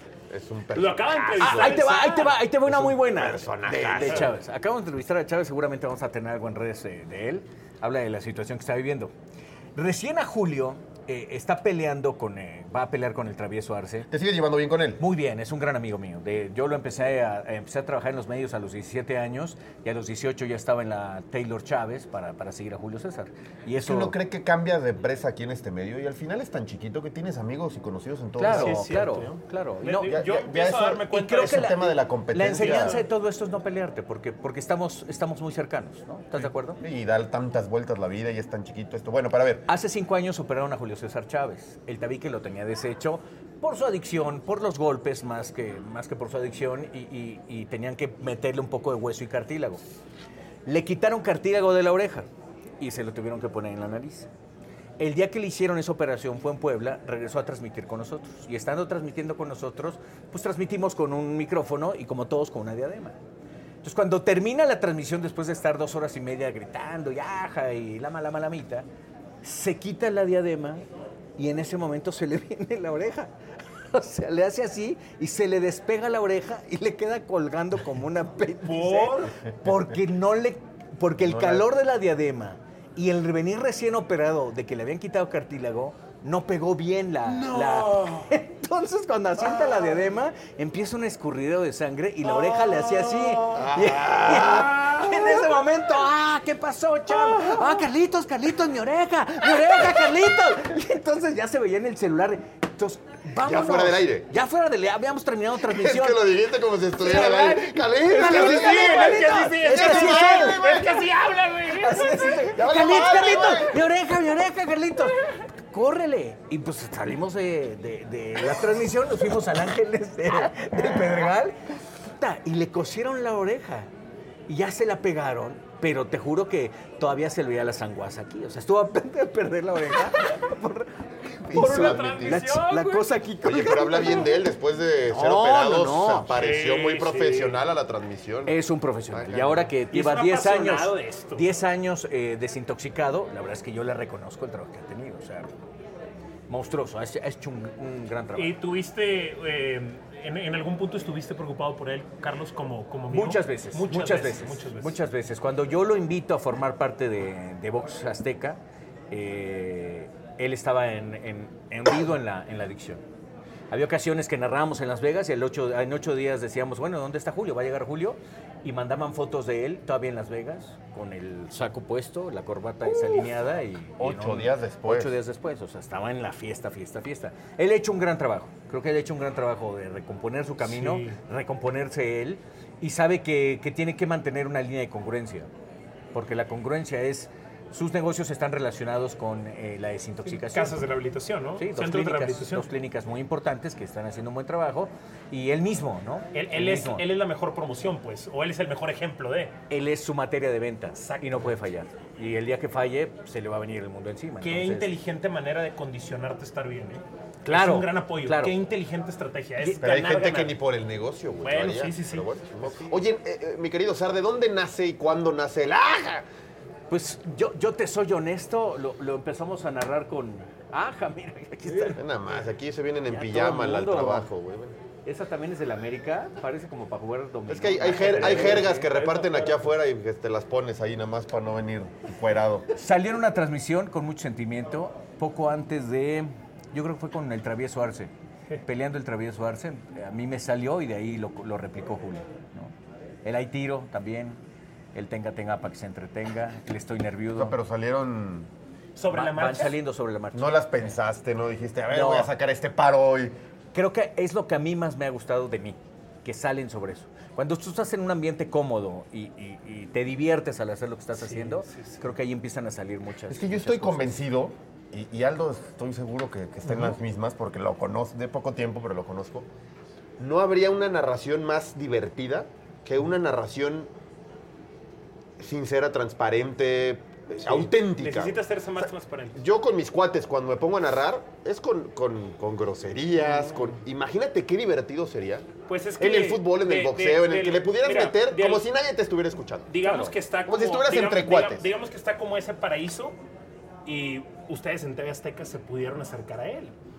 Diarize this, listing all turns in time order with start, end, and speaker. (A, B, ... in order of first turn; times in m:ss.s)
0:00.3-0:01.8 A
0:00.7-0:02.4 B
0:01.4-0:09.1 C
0:02.7-0:04.3 A
0:04.0-0:04.3 B
0:09.8-0:14.1 C
0:14.1-0:15.0 A
0:15.0-0:24.2 C
0:23.8-0:29.0 A
0:28.4-0:30.1 C
0:28.5-0:31.7 B
0:30.1-0:33.0 A
0:31.1-0:36.8 C
0:32.5-0:33.0 B
0:36.8-0:39.6 A
0:39.7-0:49.8 C
0:50.6-0:52.3 C
0:52.8-0:54.3 C
0:55.0-1:03.2 C
1:03.8-1:08.8 C
1:09.4-1:10.8 C
1:11.4-1:13.3 C
1:13.9-1:46.2 C
1:18.6-1:19.3 B
1:21.2-1:21.7 A
1:27.3-1:28.3 B
1:32.2-1:33.6 B
1:33.5-1:35.2 A
1:43.4-1:44.3 A
1:45.6-1:51.0 A
1:47.0-1:50.6 C
1:47.0-1:47.6 B
1:48.1-1:52.4 B
1:51.8-1:55.2 C
1:52.5-1:53.8 A
1:55.7-2:01.5 C
2:02.2-2:03.9 C
2:04.5-2:10.9 C
2:11.5-2:12.4 A
2:11.5-2:14.3 C
2:11.5-2:13.1 B
2:13.4-2:18.6 A
2:15.1-2:16.3 C
2:16.3-2:17.6 B
2:18.4-2:25.5 C
2:19.1-2:19.7 A
2:19.9-2:21.4 B
2:26.5-2:28.6 C
2:28.3-2:35.0 B
2:33.1-2:38.6 C
2:39.1-2:43.0 C
2:43.7-3:05.5 C
2:54.0-2:55.1 A
3:00.6-3:01.2 B
3:06.1-3:10.8 C
3:10.3-3:12.7 B
3:11.6-3:17.0 C
3:16.3-3:19.5 B
3:19.7-3:24.9 C
3:21.0-3:21.6 B
3:24.4-3:30.5 B
3:27.4-3:28.5 C
3:29.8-3:36.2 A
3:31.4-3:33.0 B
3:36.9-3:42.0 C
3:41.7-3:41.9 B
3:42.0-3:44.8 A
3:43.1-3:44.3 C
3:45.0-3:48.9 C
3:47.5-3:52.7 A
3:47.9-3:49.7 B
3:52.7-3:58.1 C
3:58.6-4:02.7 C
4:03.2-4:04.4 C
4:04.9-4:07.6 C
4:07.4-4:08.5 A
4:09.0-4:09.8 B
4:09.1-4:11.0 C
4:10.3-4:13.3 A
4:11.9-4:12.3 C
4:13.7-4:24.2 C
4:21.1-4:22.0 B
4:23.3-4:29.5 A
4:30.2-4:33.9 A
4:35.4-4:38.4 A
4:37.4-4:39.4 B
4:39.4-4:49.7 A
4:43.2-4:43.7 B
4:45.7-4:48.6 B
4:49.7-4:53.2 B
4:49.8-4:50.1 C
4:50.5-4:51.6 A
4:53.8-4:56.7 B